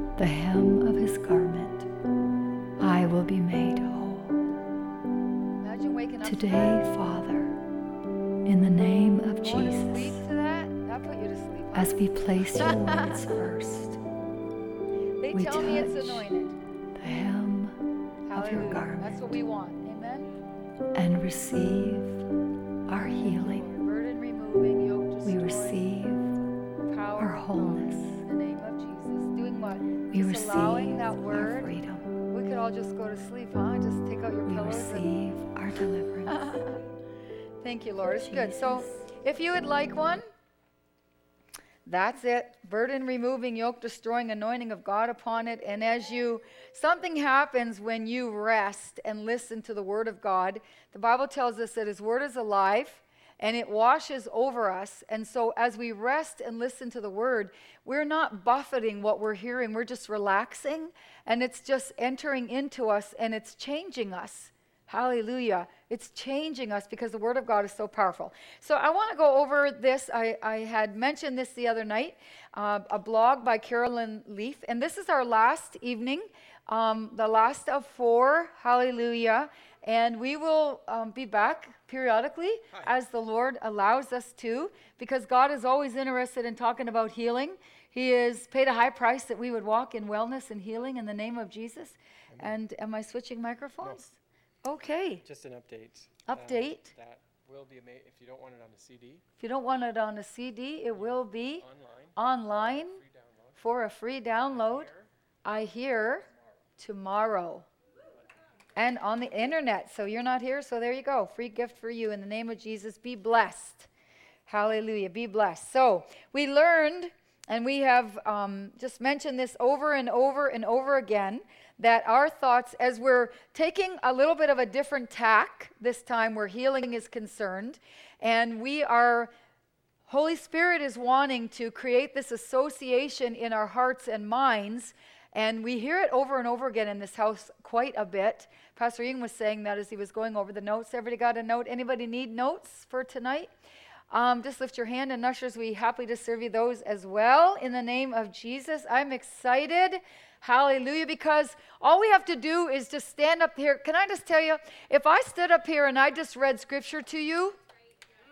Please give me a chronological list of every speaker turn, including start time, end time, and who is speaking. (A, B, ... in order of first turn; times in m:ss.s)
0:00.2-0:01.9 A
0:02.8-0:04.3 B
0:05.6-0:06.9 A
0:06.2-0:07.5 B
0:08.4-0:10.2 B
0:09.3-0:13.4 A
0:11.7-0:14.0 B
0:15.2-0:16.6 A
0:15.3-0:16.4 B
0:17.0-0:17.8 B
0:18.2-0:20.3 A
0:18.3-0:19.1 B
0:20.9-0:22.2 B
0:22.9-0:23.6 B
0:22.9-0:25.9 A
0:25.2-0:26.4 B
0:26.9-0:35.2 A
0:27.2-0:28.2 B
0:30.1-0:32.1 B
0:34.4-0:36.6 B
0:35.8-0:36.8 A
0:37.6-0:40.2 A
0:38.1-0:39.0 B
0:41.8-1:35.2 A
1:32.3-1:32.6 C
1:35.2-1:39.2 C
1:36.2-1:36.9 A
1:39.4-1:43.0 A
1:40.9-1:43.7 C
1:43.6-1:44.9 A
1:44.5-1:45.1 C
1:45.4-1:46.2 A
1:46.8-1:47.7 A
1:48.8-1:53.9 A
1:54.5-2:09.3 A
2:10.1-2:23.5 A
2:24.1-2:37.6 A